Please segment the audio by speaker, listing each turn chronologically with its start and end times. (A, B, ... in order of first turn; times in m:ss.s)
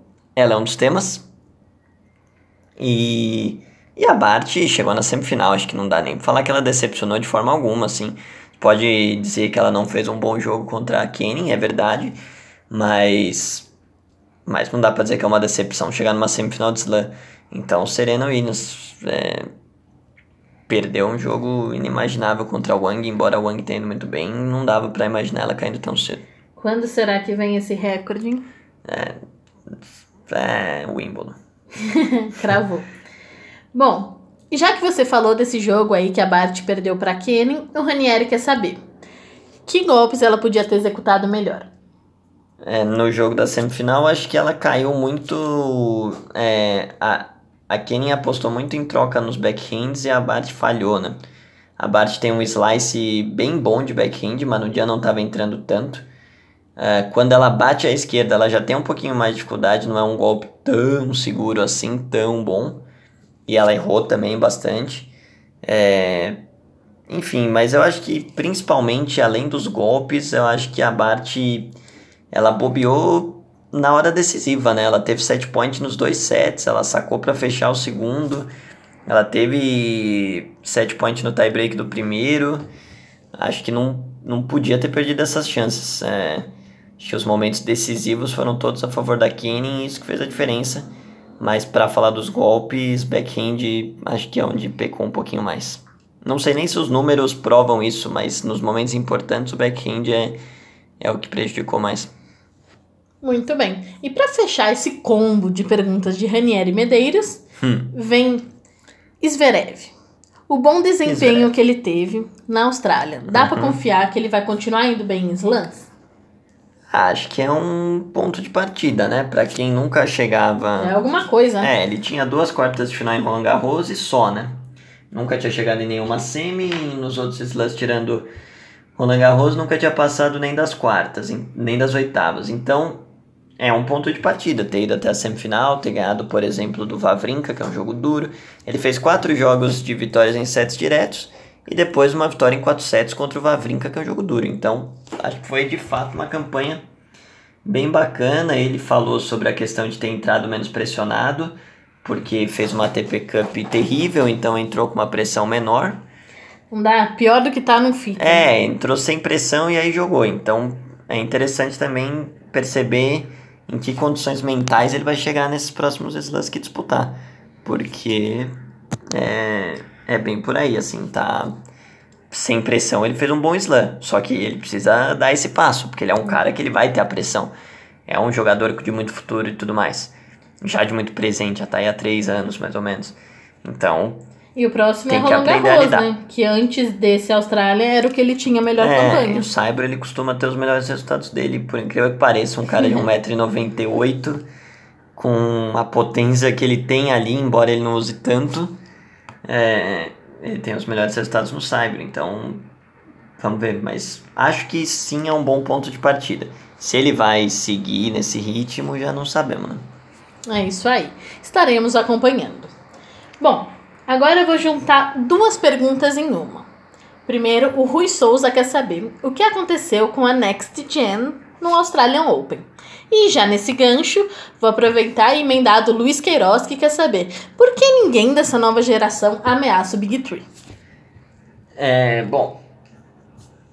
0:00.4-0:01.2 A
0:02.8-0:12.2 A
0:12.7-0:13.7 A
0:14.5-0:19.5 A
0:20.7-0:26.3 A
0:26.6-0:28.5 B
0:28.9-0:29.2 A
0:30.3-0:31.4 A
0:31.8-0:32.9 B
0:33.7-0:38.8 B
0:39.7-0:41.7 B
0:42.6-0:51.2 A
0:51.8-0:56.1 A
0:56.8-1:02.8 A
1:03.5-1:05.1 A
1:05.6-1:06.4 A
1:07.1-1:11.8 A
1:12.3-1:18.5 A
1:19.1-1:22.7 A
1:23.4-1:30.9 A
1:31.4-1:40.4 A
1:41.0-1:42.1 A
1:43.2-1:48.5 B
1:47.6-1:47.9 A
1:49.2-1:49.9 B
1:50.5-1:55.9 B
1:51.0-1:51.5 A
1:53.3-1:53.8 A
1:56.9-2:01.0 A
2:00.8-2:01.7 B
2:01.6-2:04.6 A
2:05.1-2:08.3 A
2:09.0-2:13.0 A
2:13.6-2:26.8 A
2:27.6-2:36.0 A
2:36.7-2:38.5 B
2:38.2-2:48.5 A
2:49.1-2:51.5 A
2:52.3-2:57.5 A
2:58.1-3:04.2 A
3:04.6-3:09.5 B
3:05.1-3:06.1 A
3:08.8-3:14.4 A
3:15.2-3:18.8 A
3:19.5-3:22.7 A
3:23.4-3:29.8 A
3:30.5-3:32.7 B
3:33.4-3:36.7 B
3:37.3-3:50.5 B
3:51.8-3:52.6 A